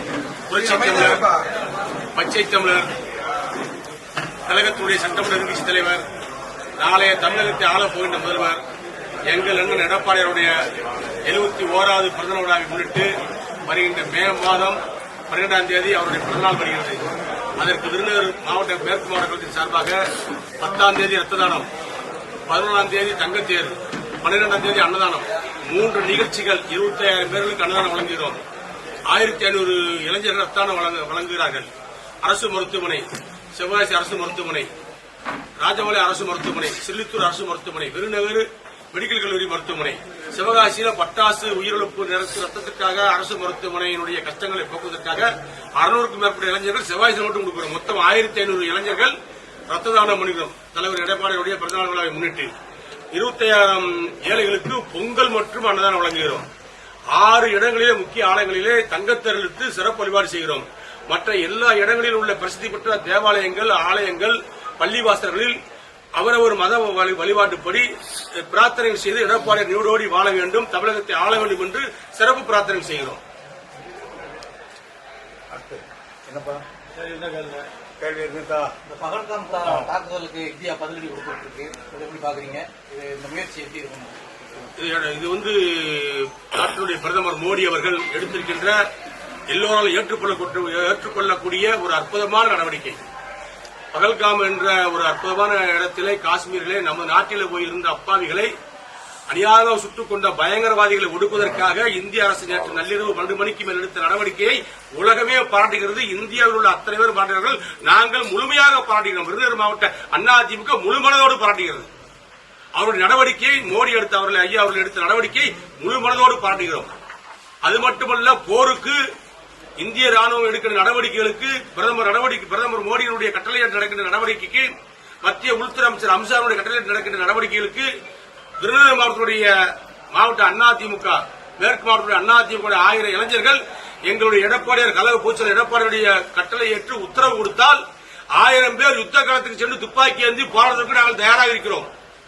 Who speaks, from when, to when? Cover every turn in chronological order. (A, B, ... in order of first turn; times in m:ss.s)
0:00.5-0:01.2 A
0:00.6-0:01.4 B
0:02.2-0:02.9 A
0:04.5-0:06.0 A
0:06.8-0:08.6 A
0:09.3-0:10.6 A
0:11.3-0:13.1 A
0:13.7-0:17.1 A
0:17.6-0:20.0 A
0:20.6-0:21.7 A
0:22.5-0:28.4 A
0:29.1-0:31.7 A
0:32.2-0:34.7 A
0:35.6-0:49.2 A
0:49.7-0:52.5 A
0:53.1-0:56.5 A
0:57.1-1:05.6 A
1:06.2-1:13.2 A
1:15.5-1:18.7 B
1:18.8-1:24.3 C
1:24.8-1:28.8 A
1:29.5-1:33.0 A
1:33.9-1:38.5 A
1:39.3-1:51.9 A
1:52.8-1:56.9 A
1:57.6-1:59.0 A
1:59.8-2:07.9 A
2:08.6-2:17.8 A
2:18.4-2:21.9 A